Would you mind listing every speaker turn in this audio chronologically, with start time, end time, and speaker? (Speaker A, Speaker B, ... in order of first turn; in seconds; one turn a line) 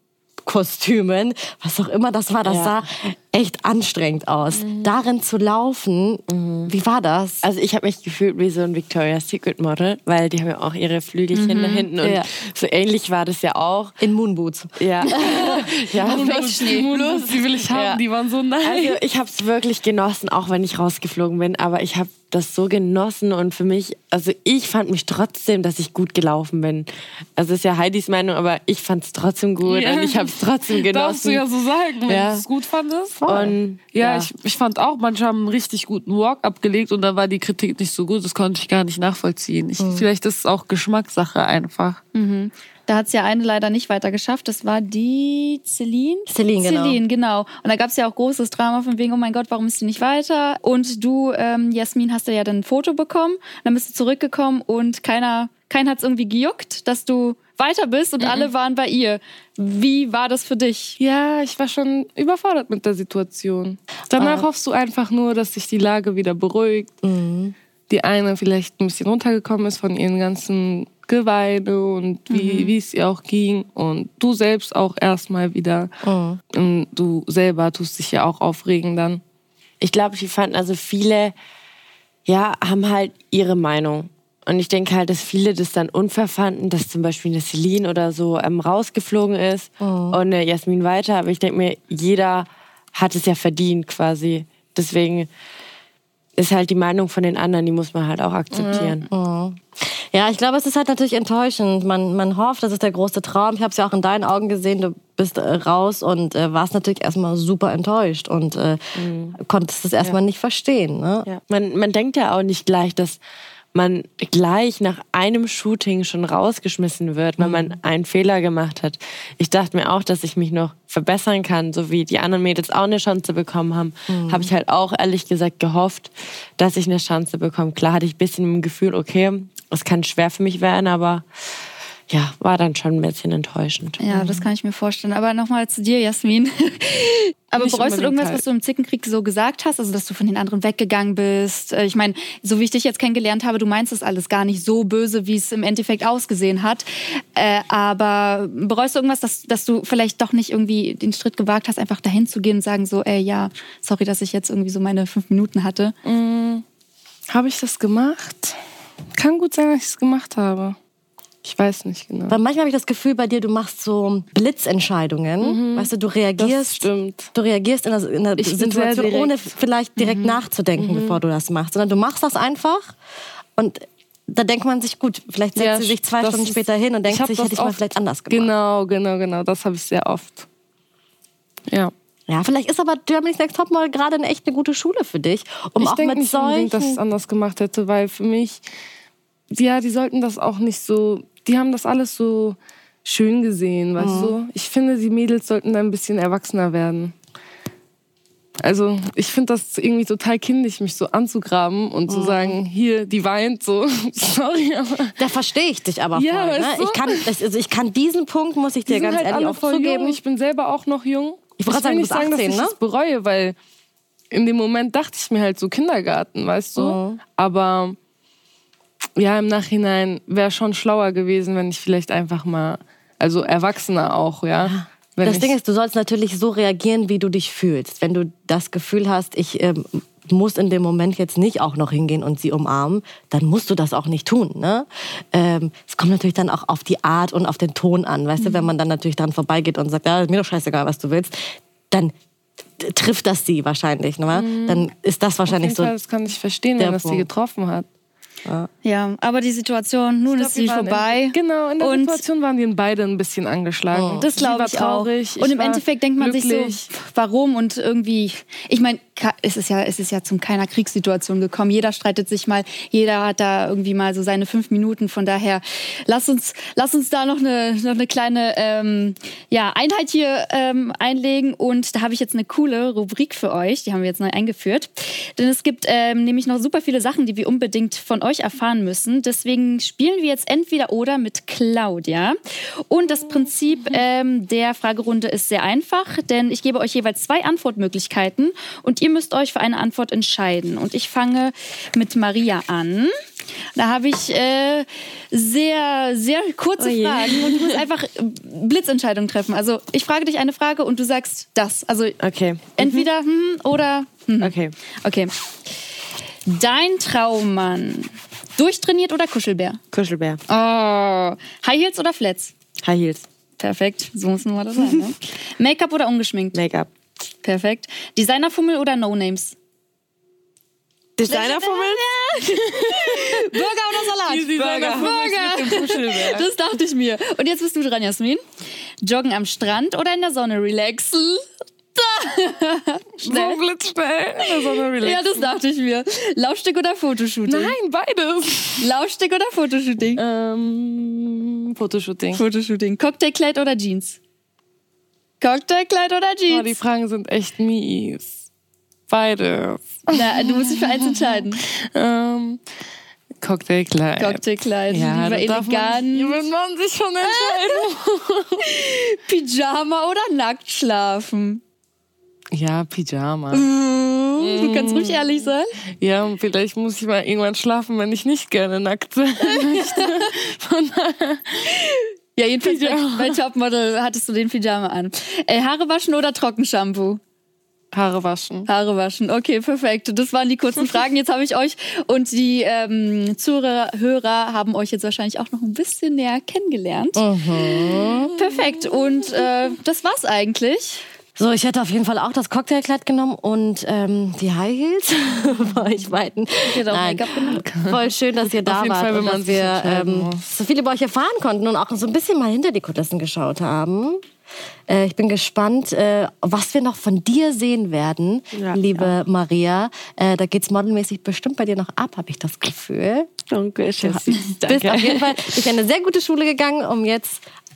Speaker A: 0.4-7.4
Speaker B: 2.4-2.8
Speaker C: 4.6-4.9
Speaker B: 6.3-6.7
Speaker B: 7.4-14.0
Speaker D: 11.3-11.9
Speaker A: 12.0-12.3
Speaker A: 14.0-15.7
Speaker B: 14.8-18.0
Speaker D: 15.2-16.9
Speaker C: 16.0-19.0
Speaker B: 18.6-31.4
Speaker C: 29.6-33.4
Speaker B: 32.0-32.5
Speaker A: 33.2-34.3
Speaker B: 33.2-33.9
Speaker C: 33.9-42.0
Speaker A: 39.8-40.0
Speaker D: 42.1-61.0
Speaker A: 46.3-47.0
Speaker C: 58.2-58.5
Speaker C: 61.0-66.9
Speaker A: 64.2-64.5
Speaker A: 67.0-67.5
Speaker C: 67.9-75.9
Speaker D: 72.3-72.8
Speaker A: 76.0-76.4
Speaker C: 76.5-79.2
Speaker B: 79.8-81.3
Speaker B: 82.2-95.3
Speaker A: 89.8-90.2
Speaker B: 96.4-99.1
Speaker C: 98.5-99.0
Speaker A: 99.1-111.3
Speaker B: 109.0-109.3
Speaker B: 111.2-113.2
Speaker B: 113.7-134.0
Speaker A: 117.4-117.8
Speaker A: 124.1-124.5
Speaker D: 134.0-155.9
Speaker A: 134.1-134.5
Speaker C: 137.6-138.4
Speaker C: 156.0-156.6
Speaker C: 157.3-158.6
Speaker C: 159.2-160.8
Speaker C: 161.4-162.4
Speaker A: 162.3-173.0
Speaker C: 165.4-167.3
Speaker C: 168.4-169.5
Speaker D: 170.0-170.2
Speaker C: 170.8-171.2
Speaker A: 173.6-178.5
Speaker C: 175.6-180.5
Speaker A: 182.3-187.0
Speaker C: 185.8-188.6
Speaker C: 189.5-197.1
Speaker A: 194.0-194.4
Speaker C: 198.6-205.2
Speaker A: 202.1-202.6
Speaker A: 205.2-210.2
Speaker C: 206.2-207.3
Speaker C: 208.8-213.6
Speaker A: 211.6-212.8
Speaker C: 214.3-218.0
Speaker A: 216.8-217.2
Speaker C: 219.2-225.5
Speaker A: 224.6-242.1
Speaker A: 242.8-245.9
Speaker C: 244.3-244.8
Speaker C: 245.5-247.8
Speaker A: 246.8-247.3
Speaker D: 248.8-252.2
Speaker C: 250.2-256.8
Speaker A: 253.9-254.2
Speaker D: 254.2-293.1
Speaker D: 293.8-302.2
Speaker B: 296.8-297.8
Speaker B: 302.2-303.1
Speaker D: 302.8-305.3
Speaker B: 304.4-304.7
Speaker D: 306.5-309.8
Speaker B: 309.9-310.4
Speaker D: 310.5-312.5
Speaker B: 312.8-313.3
Speaker D: 313.6-316.6
Speaker B: 316.5-316.9
Speaker D: 317.4-319.6
Speaker B: 321.2-322.1
Speaker D: 321.3-328.4
Speaker C: 322.4-323.6
Speaker C: 324.1-326.5
Speaker B: 324.6-325.1
Speaker D: 329.0-333.6
Speaker C: 333.2-335.5
Speaker D: 334.4-337.8
Speaker C: 337.5-338.9
Speaker D: 338.8-340.2
Speaker C: 340.2-342.4
Speaker D: 342.3-344.2
Speaker D: 345.4-346.8
Speaker C: 346.5-348.4
Speaker C: 349.1-352.6
Speaker D: 350.1-351.6
Speaker C: 353.4-358.7
Speaker D: 354.2-356.4
Speaker D: 357.3-357.8
Speaker D: 358.6-361.6
Speaker C: 362.5-363.7
Speaker D: 363.5-365.7
Speaker C: 364.4-371.8
Speaker D: 369.5-370.3
Speaker D: 371.7-377.2
Speaker C: 372.6-373.4
Speaker C: 377.9-378.7
Speaker D: 378.7-387.2
Speaker A: 387.2-388.3
Speaker C: 387.7-389.5
Speaker D: 388.3-391.0
Speaker A: 391.4-404.2
Speaker D: 396.6-397.6
Speaker C: 397.6-400.4
Speaker A: 404.9-413.3
Speaker B: 408.5-409.1
Speaker B: 413.5-415.6
Speaker A: 414.0-417.4